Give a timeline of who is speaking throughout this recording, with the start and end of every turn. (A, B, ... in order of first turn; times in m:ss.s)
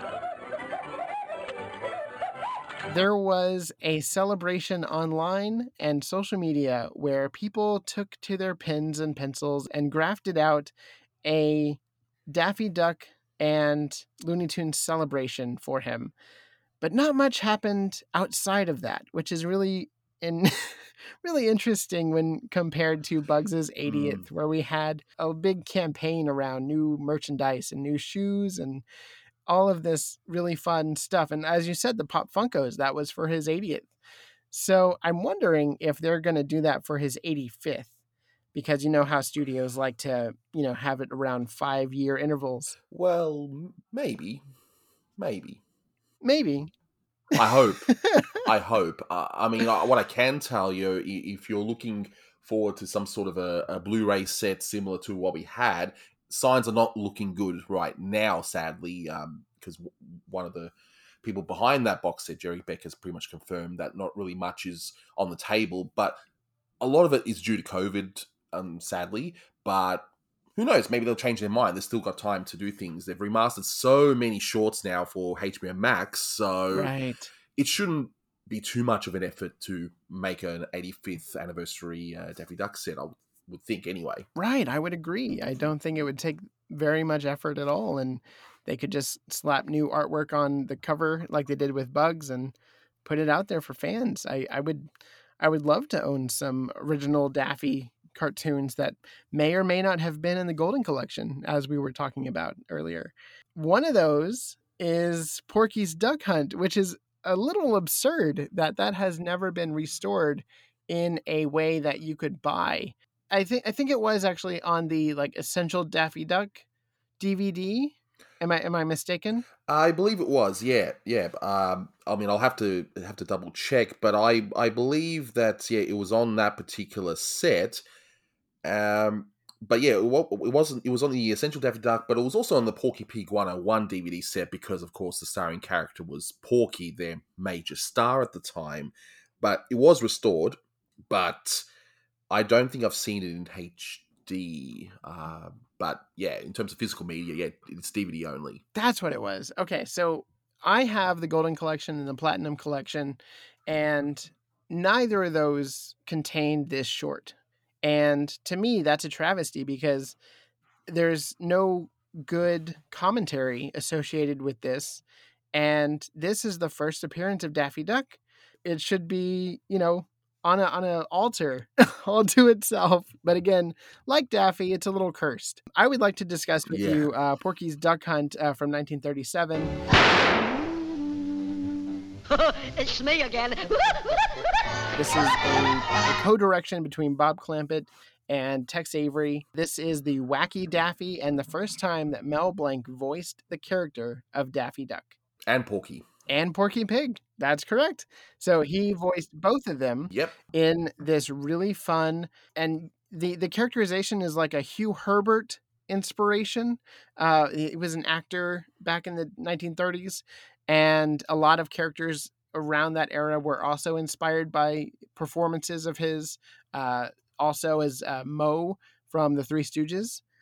0:02.9-0:10.7 A
0:11.2-0:16.1 A
0:16.8-0:28.8 A
0:23.8-0:24.2 B
0:29.5-0:33.9 A
0:34.5-0:37.9 A
0:38.5-0:42.8 A
0:42.9-0:44.4 B
0:45.2-0:45.6 B
0:46.2-0:46.7 A
0:47.3-1:06.2 B
0:47.9-0:48.2 A
1:06.8-1:16.9 B
1:16.7-1:17.3 A
1:17.6-1:24.3 B
1:24.4-1:34.9 A
1:35.4-1:56.6 A
1:57.2-1:59.4 A
1:59.7-2:07.8 B
2:08.6-2:21.6 B
2:22.3-2:28.6 B
2:28.7-2:40.2 A
2:40.9-2:45.0 A
2:45.5-2:59.8 A
2:56.7-2:57.1 B
3:02.3-3:04.3 C
3:05.0-3:15.2 A
3:15.5-3:16.1 B
3:16.3-3:40.2 A
3:20.1-3:20.4 B